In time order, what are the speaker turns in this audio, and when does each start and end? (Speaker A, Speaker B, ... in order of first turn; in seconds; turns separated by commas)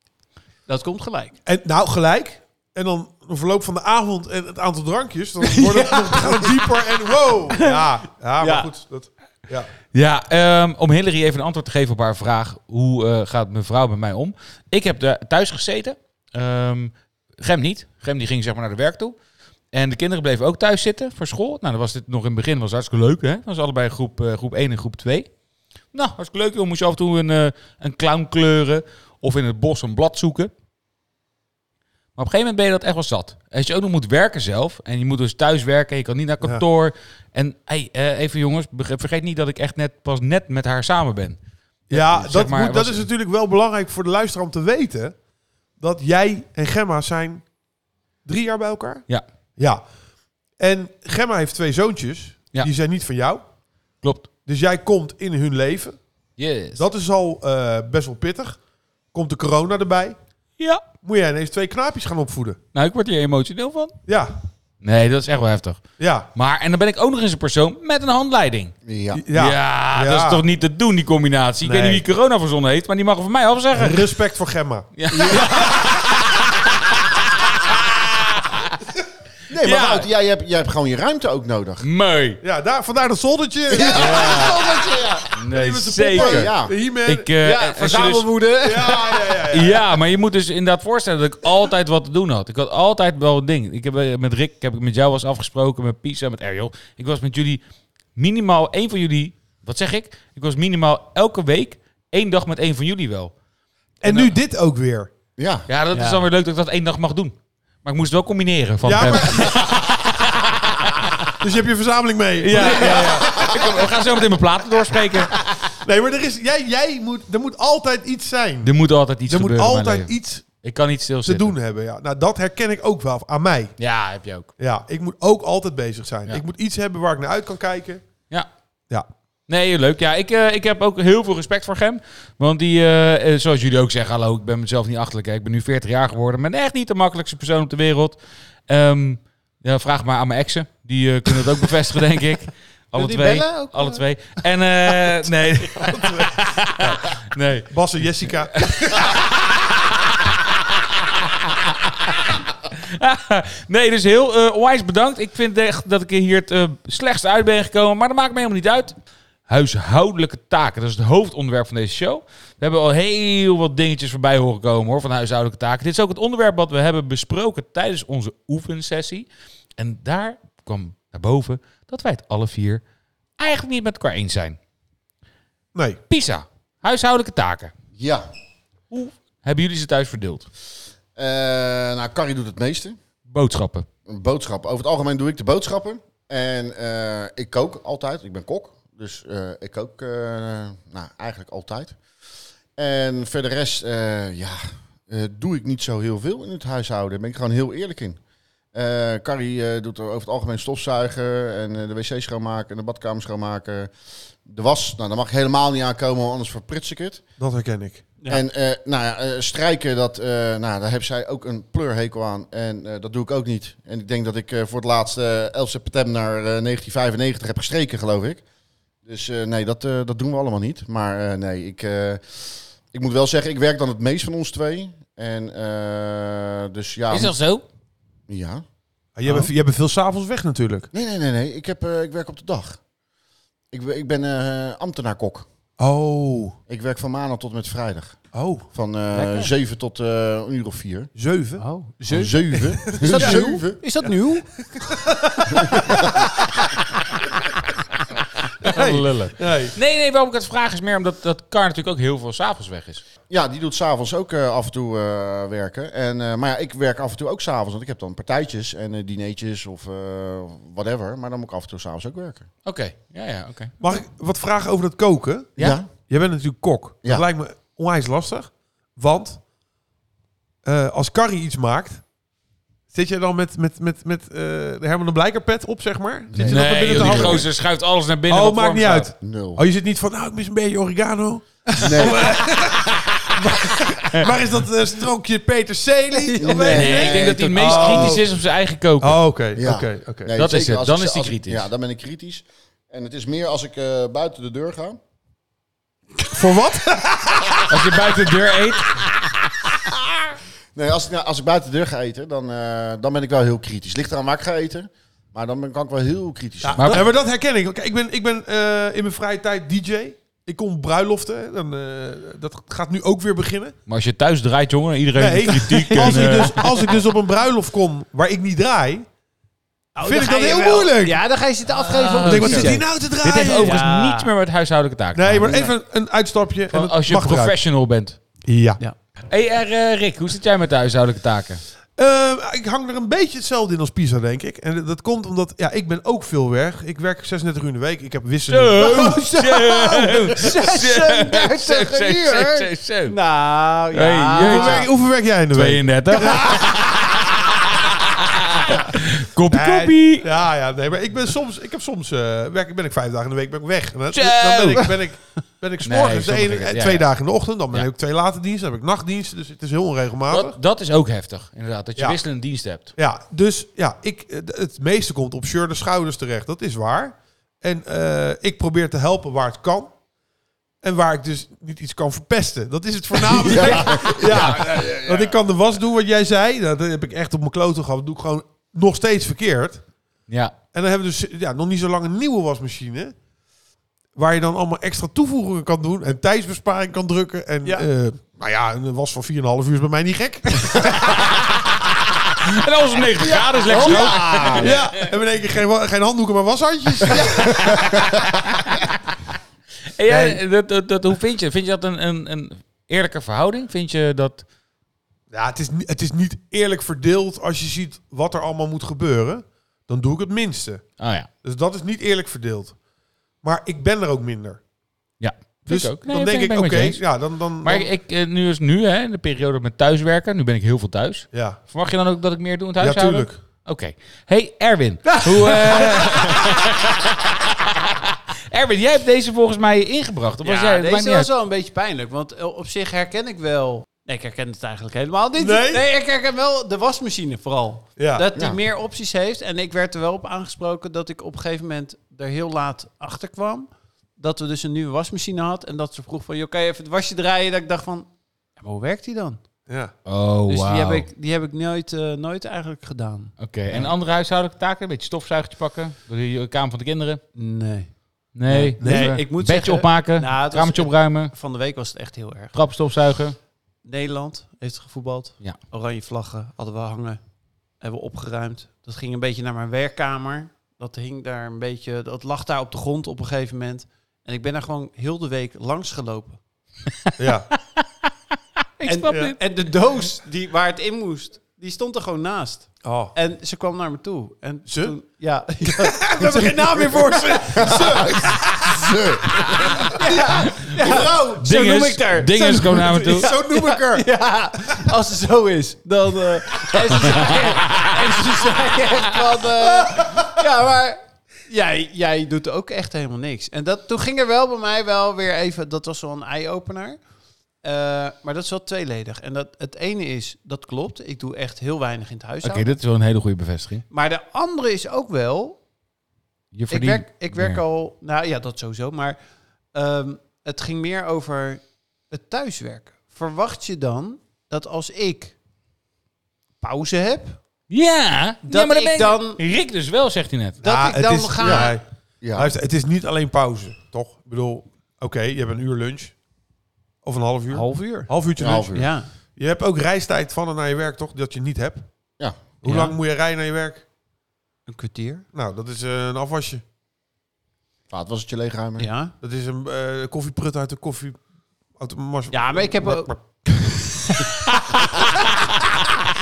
Speaker A: 0.7-1.3, Speaker B: 1.4-9.7, Speaker A: 5.4-6.7, Speaker A: 7.5-7.8, Speaker A: 8.4-8.7, Speaker C: 9.9-19.1, Speaker C: 19.7-25.3, Speaker C: 25.9-30.5, Speaker C: 32.1-41.4, Speaker C: 41.9-43.1, Speaker B: 41.9-45.2, Speaker B: 45.8-47.5, Speaker B: 48.2-49.0, Speaker B: 49.6-49.8, Speaker B: 50.6-53.4, Speaker C: 54.0-54.3, Speaker B: 54.4-56.0, Speaker C: 56.4-56.8, Speaker B: 56.8-58.6, Speaker B: 59.1-60.1, Speaker C: 60.6-60.8, Speaker B: 61.0-62.6, Speaker C: 62.7-64.0, Speaker B: 64.1-64.3, Speaker C: 64.8-68.7, Speaker B: 66.0-66.3, Speaker D: 68.8-69.2, Speaker B: 69.1-70.4, Speaker C: 69.3-74.1, Speaker B: 71.6-72.0, Speaker B: 73.7-76.0, Speaker C: 75.0-78.8, Speaker D: 79.5-81.8, Speaker C: 79.6-80.1, Speaker C: 81.8-82.4, Speaker B: 82.4-87.3, Speaker D: 83.7-85.2, Speaker A: 83.8-85.2, Speaker C: 83.9-84.6, Speaker C: 85.3-86.5, Speaker D: 86.1-86.7, Speaker C: 87.0-88.3, Speaker A: 87.4-89.4, Speaker B: 88.6-89.9, Speaker C: 89.5-97.6, Speaker C: 98.2-103.3, Speaker B: 104.0-105.1, Speaker C: 104.0-104.3, Speaker D: 105.4-105.7, Speaker C: 105.7-111.3, Speaker A: 105.9-106.2, Speaker B: 108.8-109.7, Speaker B: 111.4-113.6, Speaker C: 112.4-115.4, Speaker D: 113.3-113.7, Speaker B: 115.8-118.7, Speaker C: 118.6-121.5, Speaker B: 119.3-120.4, Speaker B: 121.2-123.7, Speaker C: 123.8-124.5, Speaker B: 124.6-128.0, Speaker C: 129.5-138.2, Speaker C: 138.7-147.7, Speaker A: 142.9-144.0, Speaker B: 145.8-147.2, Speaker B: 147.7-149.2, Speaker C: 148.2-158.9, Speaker C: 159.5-172.8, Speaker C: 173.4-174.6, Speaker B: 175.7-176.0, Speaker C: 176.1-177.7, Speaker D: 178.0-178.3, Speaker C: 178.9-180.5, Speaker D: 181.2-183.0, Speaker C: 183.3-183.9, Speaker D: 184.1-192.0, Speaker D: 192.8-198.2, Speaker D: 198.7-203.9, Speaker D: 204.4-207.2, Speaker B: 207.4-208.1, Speaker D: 208.3-218.4, Speaker D: 219.0-227.3, Speaker C: 227.1-227.6, Speaker D: 228.3-228.6, Speaker B: 229.2-230.9, Speaker D: 230.9-232.8, Speaker D: 233.7-235.5, Speaker B: 235.8-236.6, Speaker D: 236.7-238.2, Speaker B: 238.3-238.6, Speaker D: 238.7-241.1, Speaker A: 239.1-239.5, Speaker B: 241.1-241.6, Speaker A: 241.6-244.5, Speaker D: 242.1-243.8, Speaker B: 242.8-243.7, Speaker B: 244.8-246.3, Speaker D: 245.6-246.3, Speaker B: 248.6-249.7, Speaker C: 248.6-253.0, Speaker D: 253.3-262.5, Speaker C: 262.6-263.7, Speaker B: 263.8-269.4, Speaker D: 265.6-265.9, Speaker B: 270.6-272.0, Speaker B: 272.9-277.5, Speaker D: 276.3-277.5, Speaker C: 276.4-279.1, Speaker B: 278.3-288.3, Speaker D: 279.2-279.6, Speaker D: 281.8-282.4, Speaker A: 286.1-287.0, Speaker D: 286.4-288.2, Speaker C: 286.7-289.2, Speaker B: 289.0-290.3, Speaker D: 289.5-295.0, Speaker C: 290.3-291.6, Speaker B: 296.2-298.1, Speaker C: 297.7-299.1, Speaker D: 300.7-307.1, Speaker B: 306.6-313.7, Speaker C: 306.8-307.1, Speaker C: 313.9-316.9, Speaker B: 315.1-319.1, Speaker A: 315.7-316.7, Speaker A: 319.9-322.9, Speaker B: 320.0-321.2, Speaker C: 321.8-325.6, Speaker B: 322.2-323.8, Speaker A: 323.5-324.3, Speaker B: 325.1-327.5, Speaker A: 325.4-325.7, Speaker C: 326.7-328.2, Speaker B: 328.4-328.8, Speaker C: 329.3-331.6, Speaker B: 332.0-339.3, Speaker C: 338.5-343.1, Speaker A: 338.8-344.9, Speaker C: 343.9-344.9, Speaker B: 344.4-346.8, Speaker C: 345.5-350.3, Speaker B: 349.5-360.6, Speaker C: 354.1-355.0, Speaker C: 355.8-357.1, Speaker C: 360.3-362.9, Speaker B: 362.0-362.2, Speaker B: 362.9-370.0, Speaker B: 370.8-379.8, Speaker A: 373.4-374.2, Speaker D: 373.5-375.3, Speaker C: 374.2-374.7, Speaker C: 380.3-380.5, Speaker B: 380.7-383.1, Speaker B: 384.1-391.3, Speaker C: 392.3-394.9, Speaker B: 393.2-398.2, Speaker D: 393.7-394.7, Speaker C: 397.1-398.8, Speaker D: 397.7-398.1, Speaker C: 399.9-404.4, Speaker B: 400.1-400.4, Speaker B: 405.3-410.9, Speaker C: 411.0-411.3, Speaker B: 411.4-412.8, Speaker B: 413.4-414.6, Speaker C: 415.2-427.9, Speaker B: 415.7-417.9, Speaker B: 421.3-421.6, Speaker B: 422.8-423.4, Speaker A: 425.1-426.4, Speaker C: 428.5-431.3, Speaker A: 430.4-449.4, Speaker B: 435.4-435.8, Speaker B: 438.0-438.2, Speaker B: 449.7-449.9, Speaker C: 450.1-451.1, Speaker A: 450.5-453.9, Speaker C: 453.4-457.2, Speaker A: 457.3-457.9, Speaker C: 458.3-461.3, Speaker A: 458.5-462.5, Speaker B: 458.8-459.1, Speaker C: 462.5-463.4, Speaker A: 463.8-467.2, Speaker A: 467.8-476.4, Speaker B: 477.2-477.5, Speaker C: 478.8-479.3, Speaker A: 478.9-487.4, Speaker B: 482.8-483.1, Speaker B: 484.7-484.9, Speaker B: 485.6-491.4, Speaker D: 487.6-489.9, Speaker A: 489.9-507.0, Speaker C: 490.4-493.3, Speaker B: 492.6-494.1, Speaker C: 497.0-498.1, Speaker B: 499.6-500.4, Speaker A: 507.6-512.7, Speaker C: 512.4-513.8, Speaker A: 513.9-515.6, Speaker C: 516.5-517.6, Speaker A: 516.7-519.2, Speaker A: 519.7-525.3, Speaker A: 526.6-527.4, Speaker C: 527.7-530.6, Speaker A: 528.4-529.4, Speaker B: 530.6-531.8, Speaker A: 530.6-531.7, Speaker D: 531.4-532.5, Speaker B: 532.3-536.1, Speaker B: 537.0-538.8, Speaker A: 537.5-538.1, Speaker D: 538.4-538.9, Speaker A: 538.7-539.1, Speaker B: 539.4-541.9, Speaker B: 542.6-543.8, Speaker A: 542.6-542.9, Speaker A: 544.7-545.2, Speaker B: 545.3-546.6, Speaker D: 547.9-548.9, Speaker A: 548.8-549.1, Speaker B: 549.2-551.2, Speaker B: 551.8-553.2, Speaker A: 552.3-555.1